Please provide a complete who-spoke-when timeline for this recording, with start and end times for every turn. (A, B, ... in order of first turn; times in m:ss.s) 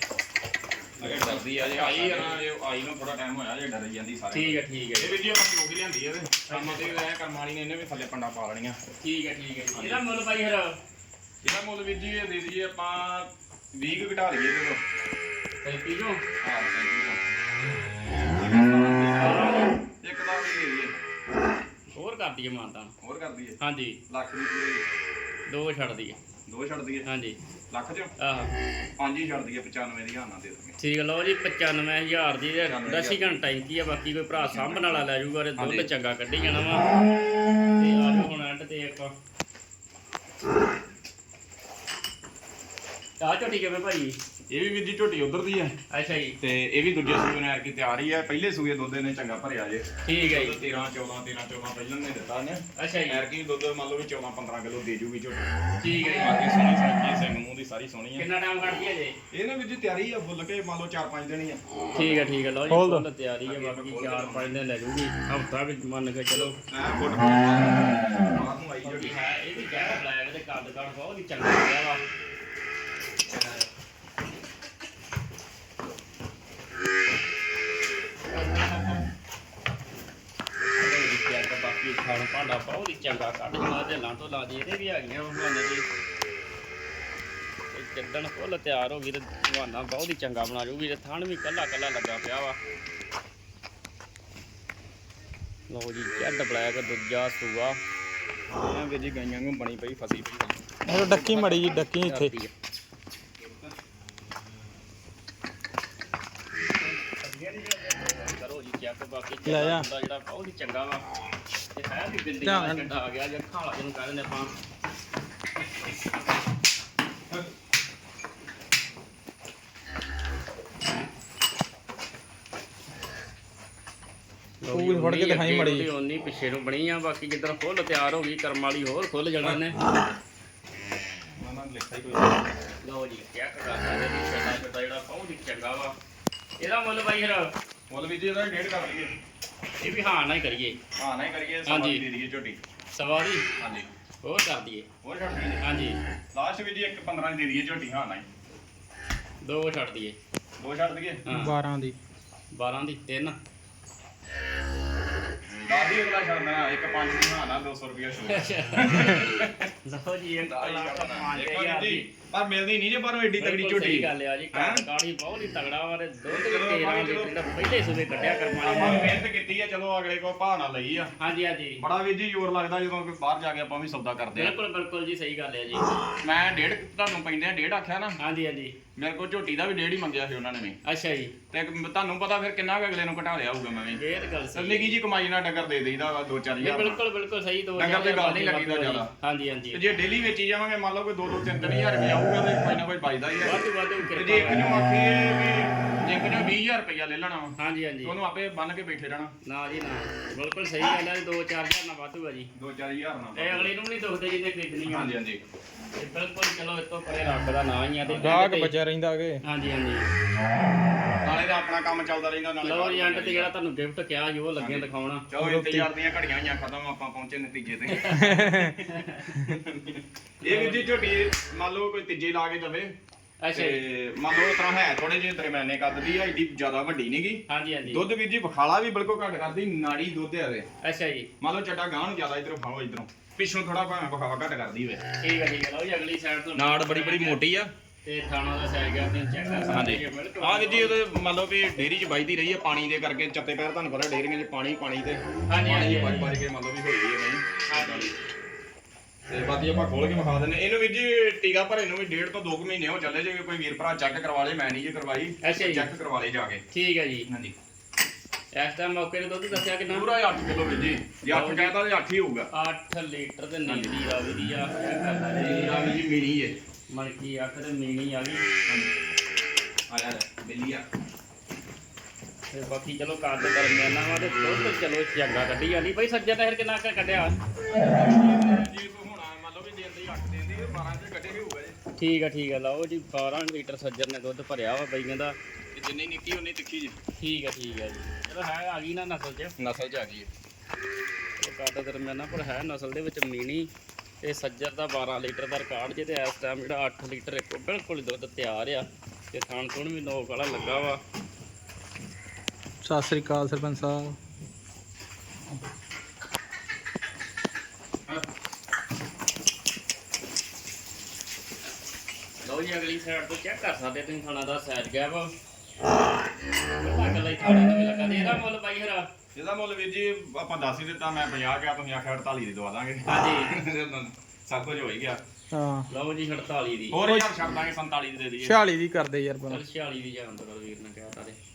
0:01.0-0:08.8 A
0:01.0-0:02.4 B
0:04.3-0:05.1 B
0:06.5-0:07.0 B
0:09.0-0:10.8 B
0:09.8-0:10.0 A
0:11.4-0:14.8 A
0:15.6-0:16.2 B
0:16.4-0:17.2 A
0:18.3-0:20.9 A
0:19.1-0:19.8 B
0:21.9-0:22.9 B
0:23.0-0:23.6 A
0:23.6-0:24.0 B
0:24.1-0:24.9 A
0:25.5-0:26.2 B
0:26.5-0:27.0 A
0:27.0-0:27.4 B
0:27.7-0:28.1 A
0:28.2-0:28.5 B
0:29.0-0:30.8 A
0:30.8-0:36.8 B
0:32.6-0:33.4 A
0:34.5-0:34.9 A
0:35.6-0:35.9 A
0:37.8-0:39.1 B
0:43.2-0:44.2 B
0:44.5-0:45.7 A
0:45.9-0:46.4 B
0:46.4-0:55.4 A
0:50.0-0:50.6 B
0:52.8-0:53.2 B
0:55.8-0:56.4 B
0:56.1-0:58.3 A
0:58.2-0:59.2 B
0:59.3-1:02.2 A
1:01.9-1:06.6 B
1:02.7-1:03.0 C
1:03.5-1:04.5 A
1:06.3-1:09.9 A
1:08.8-1:12.0 B
1:13.3-1:13.6 A
1:20.8-1:25.8 B
1:27.7-1:32.6 B
1:35.7-1:37.8 B
1:38.5-1:42.3 A
1:40.9-1:42.4 C
1:42.0-1:42.3 B
1:43.4-1:43.7 A
1:47.0-1:51.0 B
1:49.5-1:49.9 C
1:51.7-1:54.5 B
1:52.4-1:52.8 C
2:04.6-2:09.8 B
2:04.7-2:05.9 C
2:11.4-2:12.5 A
2:12.8-2:15.9 B
2:16.6-2:17.5 B
2:17.9-2:19.1 A
2:19.8-2:20.8 B
2:21.0-2:22.6 A
2:21.6-2:22.0 B
2:22.9-2:23.5 B
2:23.6-2:23.9 A
2:24.2-2:24.9 B
2:25.0-2:25.6 A
2:25.6-2:26.0 B
2:26.3-2:28.2 A
2:29.4-2:30.2 B
2:30.6-2:31.2 A
2:31.3-2:31.5 B
2:31.3-2:32.0 C
2:32.5-2:33.4 B
2:35.7-2:39.7 A
2:38.3-2:42.1 B
2:40.4-2:44.8 A
2:43.4-2:49.1 B
2:46.3-2:47.4 A
2:48.6-2:51.1 A
2:51.2-2:51.8 B
2:51.8-2:54.6 A
2:54.4-2:55.9 B
2:56.2-2:58.2 A
2:58.2-2:58.8 B
2:59.0-3:00.8 A
3:00.8-3:01.3 B
3:01.5-3:04.0 A
3:03.9-3:05.0 B
3:04.5-3:07.0 A
3:06.6-3:09.8 B
3:07.8-3:09.1 A
3:09.7-3:19.3 A
3:13.4-3:14.8 B
3:17.6-3:18.1 B
3:19.4-3:22.5 B
3:22.5-3:23.7 A
3:23.4-3:25.1 B
3:24.9-3:25.4 A
3:26.0-3:28.7 B
3:28.0-3:28.4 A
3:28.2-3:29.4 C
3:29.4-3:30.1 B
3:31.2-3:33.5 A
3:32.6-3:35.2 B
3:34.6-3:42.9 A
3:35.4-3:35.9 C
3:37.9-3:39.4 B
3:38.2-3:38.8 C
3:40.4-3:40.9 B
3:43.4-3:43.8 B
3:43.5-3:50.6 A
3:47.5-3:48.0 B
3:50.8-3:51.3 B
3:51.4-3:55.0 A
3:55.2-3:57.4 B
3:56.5-3:57.7 A
3:58.0-4:01.0 B
3:59.7-4:08.1 A
4:05.5-4:06.3 B
4:07.7-4:08.1 B
4:09.3-4:16.6 A
4:15.4-4:15.9 B
4:16.7-4:17.3 B
4:17.3-4:17.5 A
4:18.5-4:20.1 B
4:19.5-4:22.5 A
4:21.3-4:21.7 B
4:22.5-4:25.9 B
4:23.7-4:24.0 A
4:25.4-4:26.6 A
4:26.9-4:28.4 B
4:28.6-4:28.9 A
4:29.9-4:30.8 A
4:32.5-4:37.4 B
4:37.7-4:41.8 A
4:42.0-4:45.4 B
4:45.7-4:47.0 A
4:47.2-4:49.5 B
4:49.6-4:50.3 A
4:51.4-4:53.7 B
4:54.2-5:01.0 B
5:02.8-5:04.2 C
5:12.4-5:15.3 B
5:16.8-5:19.1 B
5:19.4-5:25.2 A
5:23.1-5:23.5 B
5:25.5-5:25.9 C
5:25.9-5:27.0 B
5:26.9-5:28.6 A
5:28.4-5:29.6 C
5:29.5-5:31.4 B